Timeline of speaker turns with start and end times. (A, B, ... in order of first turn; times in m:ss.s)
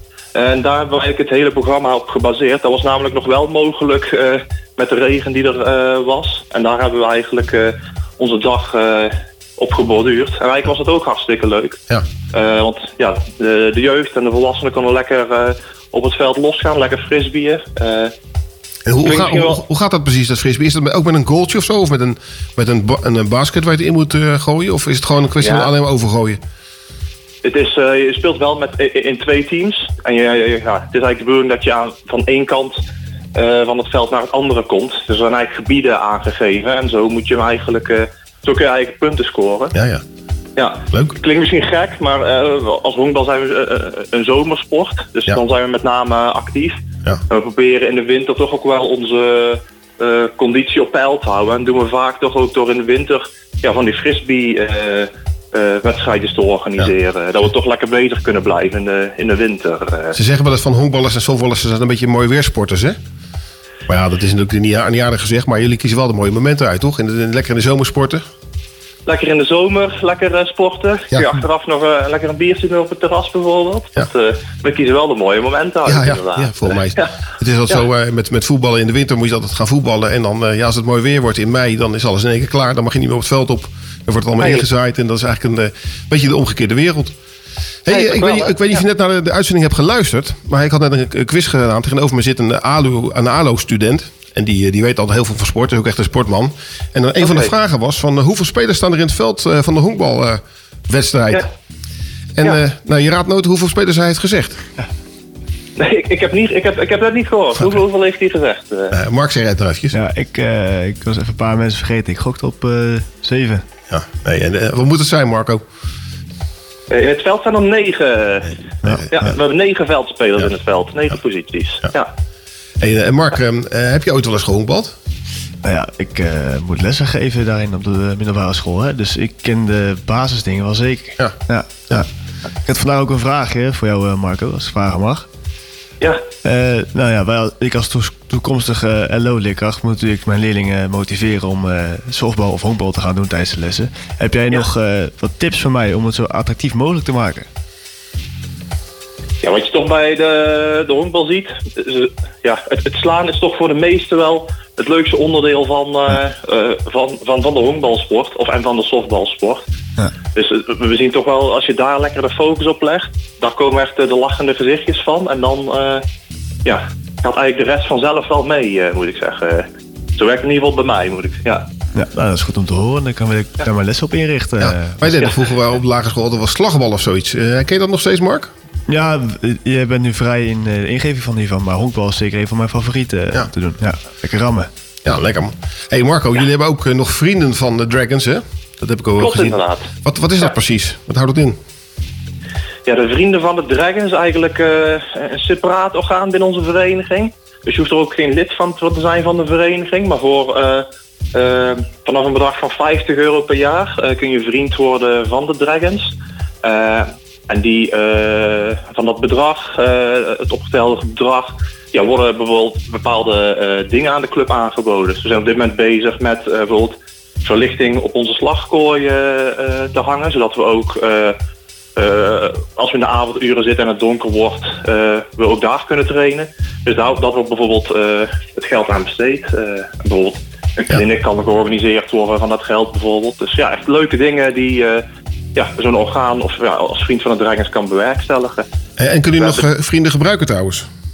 0:00.4-0:11.8 A
0:12.3-0:18.1 A
0:18.9-0:26.4 B
0:19.0-0:19.6 A
0:25.4-0:25.7 A
0:27.4-0:32.8 A
0:33.4-0:39.7 A
0:39.7-0:40.0 B
0:40.6-0:46.8 A
0:47.3-1:00.2 A
1:00.1-1:03.0 B
1:03.9-1:08.2 B
1:09.1-1:17.1 A
1:15.9-1:27.2 B
1:24.4-1:24.7 A
1:27.9-1:41.5 B
1:27.9-1:28.8 A
1:37.2-1:37.5 A
1:42.4-1:44.6 B
1:45.8-1:48.9 A
1:48.9-1:50.0 B
1:49.9-1:53.6 C
1:53.9-1:55.6 B
1:56.9-2:02.1 A
1:58.8-1:59.3 C
2:02.8-2:05.0 B
2:05.6-2:12.1 C
2:12.7-2:15.3 C
2:16.4-2:27.5 C
2:29.4-2:39.6 A
2:40.4-2:46.0 A
2:46.6-2:51.7 A
2:52.0-2:55.1 C
2:54.6-2:58.5 B
2:55.1-2:55.3 A
2:58.9-3:04.7 C
3:05.0-3:11.6 B
3:09.2-3:09.9 A
3:12.9-3:26.1 A
3:26.6-3:41.4 A
3:42.0-3:55.0 A
3:55.6-3:58.7 A
3:59.0-4:00.9 B
3:59.4-3:59.6 A